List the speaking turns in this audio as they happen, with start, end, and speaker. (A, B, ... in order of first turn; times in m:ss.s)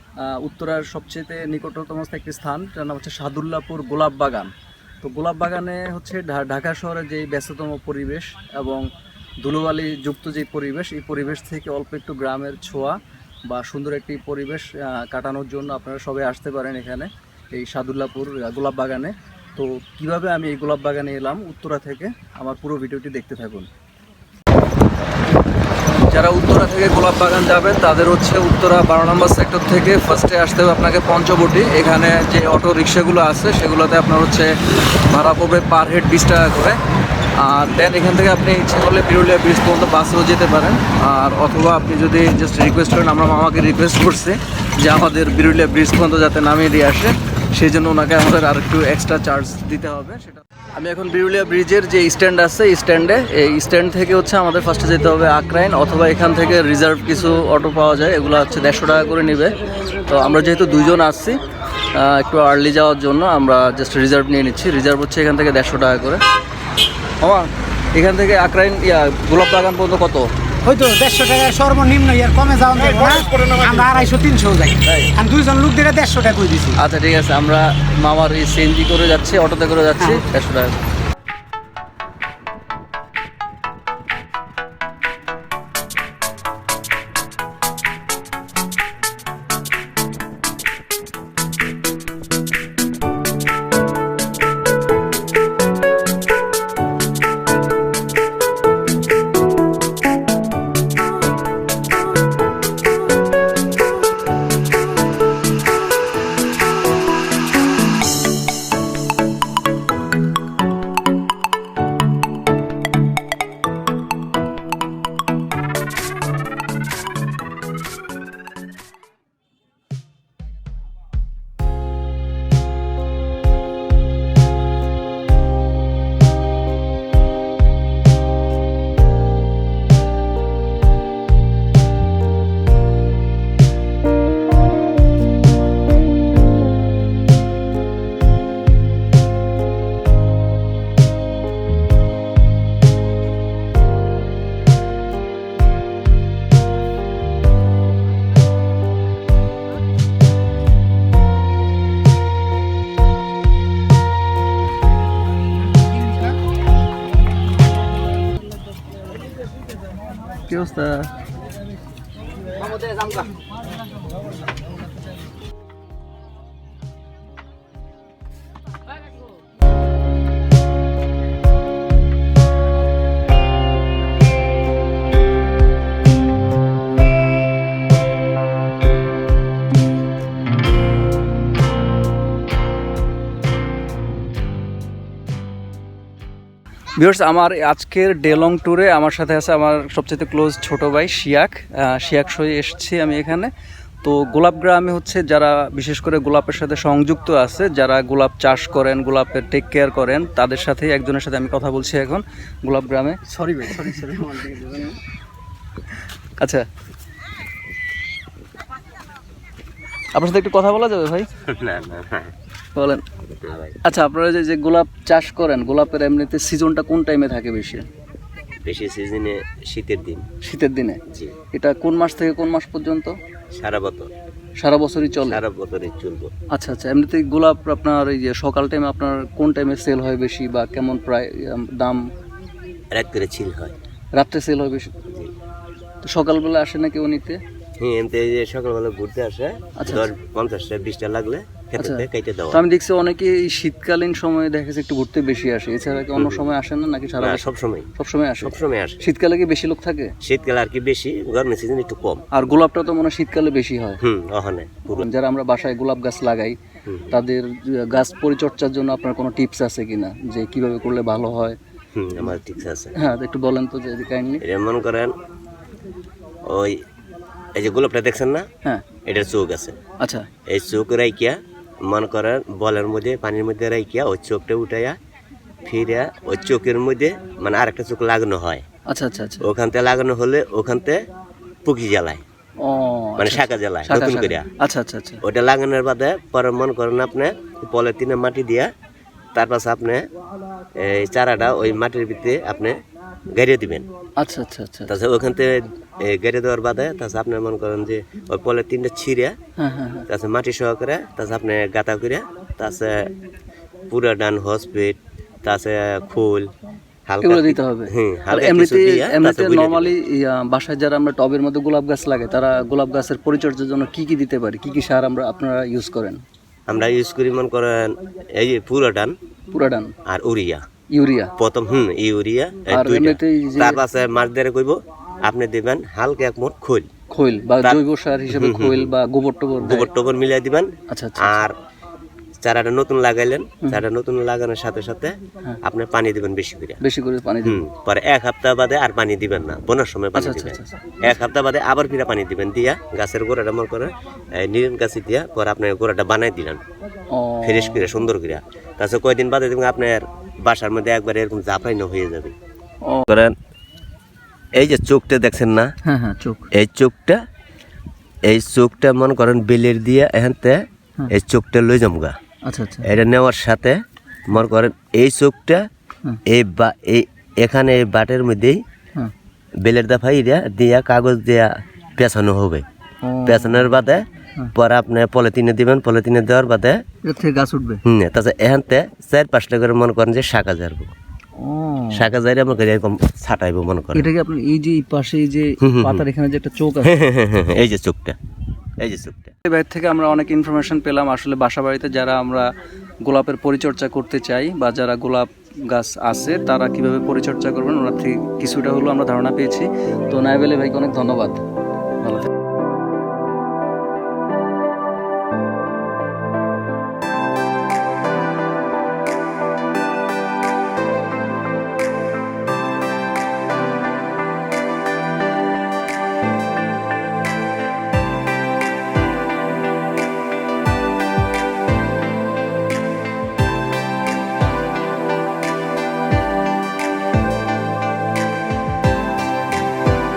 0:00.2-0:08.9 A
0:09.4-0:23.7 A
0:25.8-0:36.8 A
0:37.3-1:01.4 A
1:01.9-1:06.2 A
1:07.2-1:10.3 A
1:10.6-1:16.8 B
1:16.7-1:20.8 A
2:40.4-2:41.1 A
3:07.0-3:13.5 A
3:14.0-3:25.0 A
3:26.4-3:26.7 A
3:30.1-3:31.3 A
3:31.4-3:32.3 C
3:32.7-3:33.0 A
3:33.4-3:33.8 C
3:33.8-3:37.9 A
3:38.6-3:40.3 C
3:40.4-3:41.0 A
3:41.1-3:41.4 C
3:41.5-3:43.2 A
3:43.5-3:44.1 C
3:44.6-3:45.4 A
3:45.2-3:46.3 C
3:46.5-3:52.0 A
3:52.9-3:53.7 C
3:54.2-3:54.9 A
3:55.1-3:55.3 C
3:56.0-3:57.4 A
3:57.8-4:02.6 C
3:59.8-4:00.1 A
4:01.8-4:10.1 A
4:06.2-4:06.5 C
4:07.2-4:09.0 C
4:10.2-4:12.2 C
4:12.3-4:14.0 A
4:14.0-4:15.1 C
4:14.9-4:16.6 A
4:16.8-4:17.2 C
4:17.1-4:21.6 A
4:21.9-4:22.9 C
4:22.9-4:24.4 A
4:24.4-4:25.1 C
4:26.4-4:26.8 C
4:27.6-4:28.5 C
4:29.0-4:29.8 C
4:30.0-4:30.3 A
4:30.5-4:35.0 C
4:35.6-4:38.6 C
4:38.9-4:39.4 A
4:39.4-4:41.0 C
4:41.6-4:42.2 C
4:42.6-4:45.2 A
4:43.2-4:44.5 C
4:45.2-4:48.7 C
4:49.3-4:50.1 C
4:50.8-4:52.8 C
4:53.3-4:53.9 C
4:54.2-4:54.9 A
4:54.9-4:59.4 C
4:59.6-5:00.0 A
5:00.1-5:03.1 C
5:03.9-5:06.5 C
5:07.1-5:09.9 C
5:07.2-5:16.2 A
5:16.7-5:19.1 C
5:19.5-5:19.9 A
5:20.0-5:20.6 C
5:20.9-5:21.3 A
5:21.4-5:26.9 C
5:22.7-5:23.8 A
5:27.1-5:29.9 A
5:27.6-5:28.9 C
5:29.6-5:31.6 C
5:30.9-5:31.4 A
5:32.4-5:36.8 C
5:36.8-5:37.6 A
5:37.4-5:46.6 C
5:40.1-5:40.8 A
5:47.1-5:47.8 A
5:47.4-5:52.3 C
5:53.1-5:53.3 C
5:54.6-5:55.7 C
5:55.8-5:56.5 A
5:56.5-5:57.2 C
5:58.2-6:02.2 C
6:02.4-6:02.9 A
6:02.8-6:05.6 C
6:06.2-6:08.6 C
6:09.6-6:12.6 C
6:13.0-6:13.8 A
6:13.2-6:16.8 C
6:17.0-6:17.8 A
6:17.8-6:20.9 C
6:21.4-6:22.1 A
6:21.9-6:24.1 C
6:23.9-6:26.9 A
6:25.6-6:26.0 C
6:26.8-6:28.2 C
6:28.8-6:29.3 C
6:29.4-6:32.5 A
6:33.0-6:41.4 A
6:42.0-6:42.3 A